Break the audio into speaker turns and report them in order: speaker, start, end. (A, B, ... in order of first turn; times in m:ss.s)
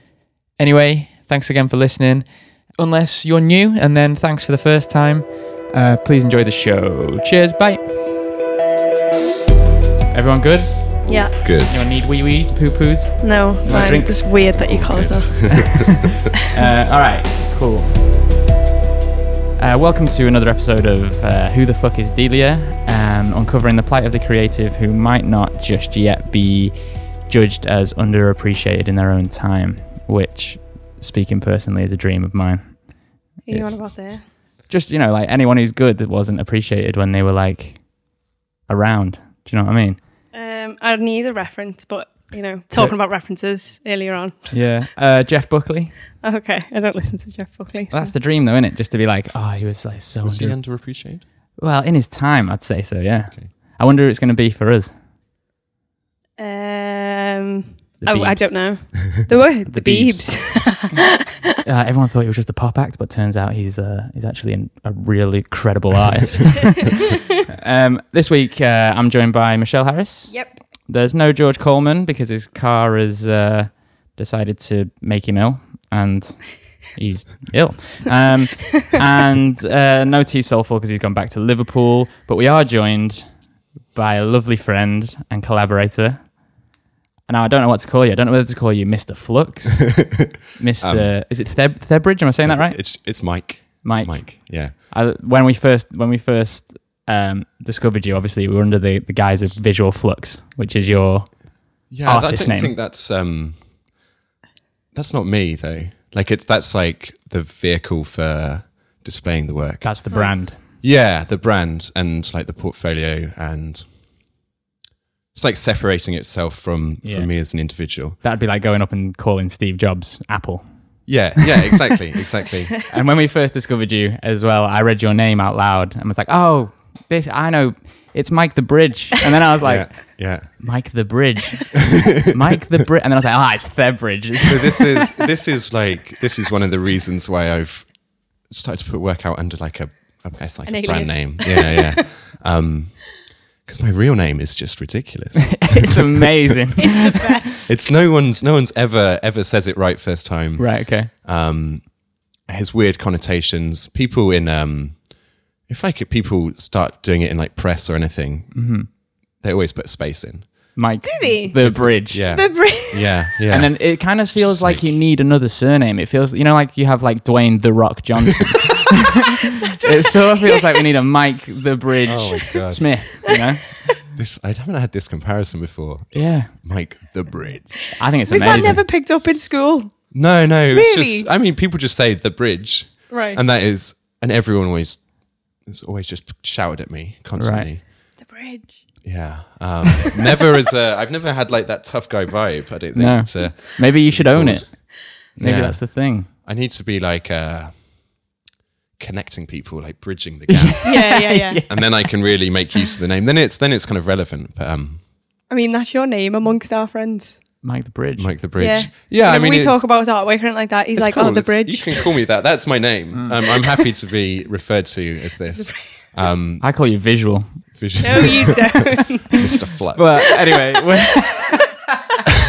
0:00.6-0:07.9 A
0:10.1-0:14.6 A
0:11.1-0:11.4 B
0:11.4-0:11.9 C
0:13.2-0:15.9 B
0:13.7-0:16.1 C
0:15.5-0:18.1 A
0:19.6-0:32.9 A
0:33.5-0:34.2 B
0:33.5-0:37.9 A
0:38.7-0:40.0 A
0:40.3-0:44.6 B
0:44.5-0:46.0 A
0:46.2-0:48.1 B
0:47.9-0:50.8 A
0:50.2-0:51.2 C
0:51.6-0:54.9 A
0:56.4-1:01.2 B
0:58.0-0:58.9 A
0:59.7-1:00.7 A
1:01.6-1:06.9 A
1:07.5-1:23.3 A
1:10.3-1:10.6 B
1:23.9-1:26.4 A
1:27.3-1:33.3 A
1:30.8-1:31.2 C
1:32.4-1:34.8 C
1:33.8-1:42.7 A
1:41.9-1:43.7 C
1:44.9-1:53.9 C
1:49.8-1:50.6 A
1:55.3-1:58.2 C
1:57.0-1:57.6 A
1:58.2-2:00.7 A
2:01.1-2:02.8 C
2:02.9-2:14.9 A
2:09.6-2:10.6 C
2:11.9-2:12.3 C
2:14.4-2:26.0 C
2:20.6-2:22.0 B
2:25.5-2:27.2 A
2:26.8-2:27.7 B
2:27.7-2:38.8 C
2:30.6-2:31.1 A
2:38.5-2:38.9 A
2:39.4-2:40.8 C
2:40.8-2:42.3 A
2:41.0-2:43.3 B
2:41.6-2:45.0 C
2:43.5-2:53.8 A
2:49.6-2:50.8 B
2:52.1-2:53.3 C
2:54.1-2:58.8 C
2:56.1-2:56.5 A
2:57.9-2:58.8 A
2:58.3-3:00.1 B
3:00.1-3:07.9 C
3:00.7-3:01.3 B
3:03.1-3:03.4 B
3:07.4-3:07.7 A
3:08.2-3:08.8 B
3:09.0-3:17.9 C
3:13.0-3:16.3 A
3:19.0-3:20.9 C
3:20.5-3:21.8 A
3:20.8-3:21.6 B
3:21.7-3:25.0 C
3:25.5-3:27.4 B
3:27.6-3:28.3 A
3:28.2-3:29.9 C
3:28.6-3:32.1 B
3:31.0-3:36.7 C
3:35.5-3:36.1 B
3:36.6-3:37.6 A
3:37.7-3:40.4 C
3:38.0-3:39.5 B
3:39.9-3:41.7 A